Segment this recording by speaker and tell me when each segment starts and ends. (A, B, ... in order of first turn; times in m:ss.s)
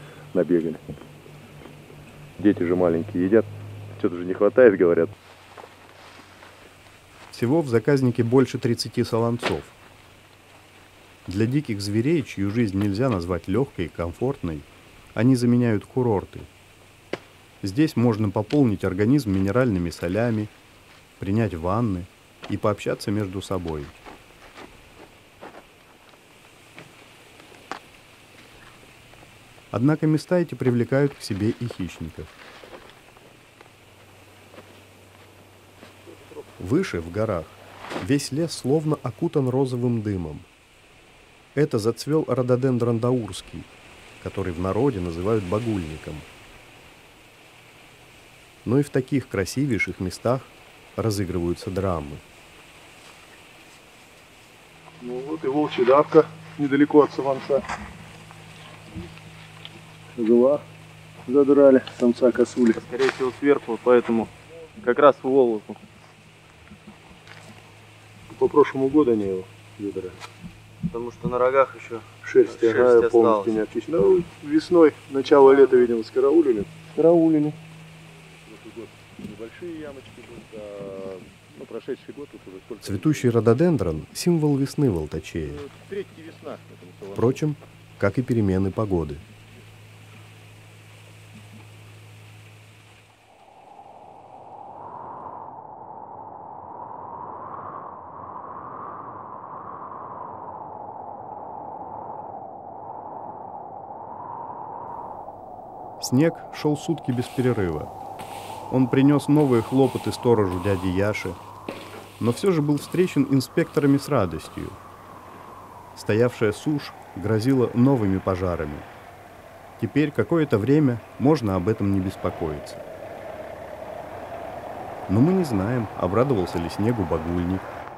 0:00.3-0:00.8 A
0:02.4-0:05.1 A
0:07.3-0:09.7 B
0:11.2-0:16.5 B
0:17.6-0:20.5 B
0:21.2-0:23.9 B
0:29.7-0:32.3 B
0:36.6-0:40.5 B
0:41.5-0:43.7 B
0:44.2-0:46.3 B
0:48.6-0:52.2 B
0:55.0-0:57.6 A
1:00.1-1:00.6 A
1:01.2-1:02.8 A
1:02.7-1:05.8 C
1:08.3-1:10.2 A
1:10.8-1:13.6 C
1:12.2-1:17.6 A
1:18.4-1:23.3 A
1:22.8-1:25.7 B
1:25.6-1:27.4 A
1:27.1-1:29.2 B
1:46.0-1:47.9 B
1:48.7-1:51.4 B
1:52.2-1:54.8 B
1:55.9-1:58.9 B
1:59.8-2:02.8 B
2:05.1-2:07.7 B